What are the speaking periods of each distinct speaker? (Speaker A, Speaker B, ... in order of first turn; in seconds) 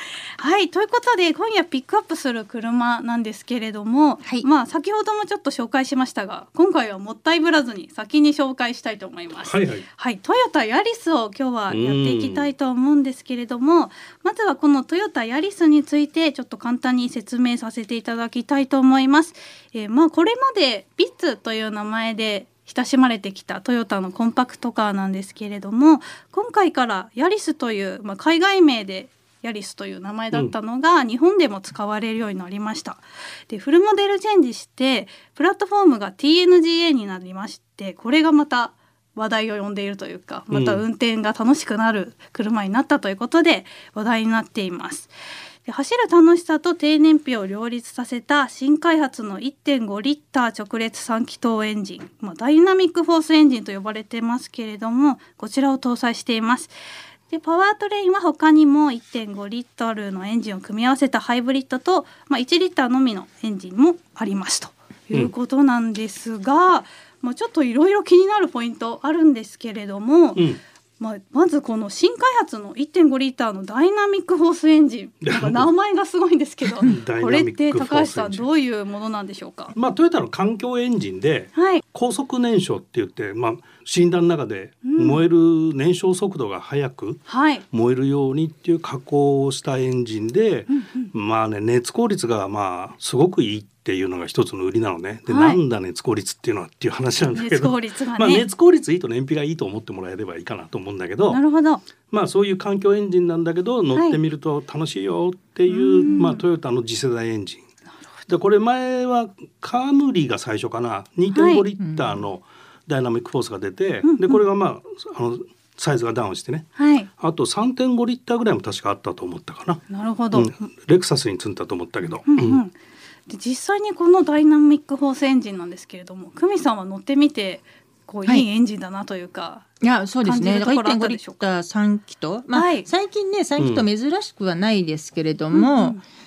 Speaker A: 0.4-45.1, 45.6-56.7, 57.3-70.5, 71.0-79.7, 81.5-81.8, 84.8-85.2, 87.3-87.6, 90.7-91.1, 95.3-95.6, 97.3-98.5, 101.3-101.8, 105.7-106.4, 111.3-111.7, 114.0-114.4, 116.8-117.1, 119.9-120.5, 122.3-122.7, 123.3-129.7, 130.2-131.4, 132.5-132.9, 135.5-136.0
Speaker B: 9.4-9.8, 11.7-12.5, 40.5-40.8, 70.4-70.6, 75.2-75.7, 76.8-78.5, 79.8-101.4, 102.1-107.6, 108.3-122.6, 133.6-133.9
Speaker C: 111.8-112.3, 129.8-136.0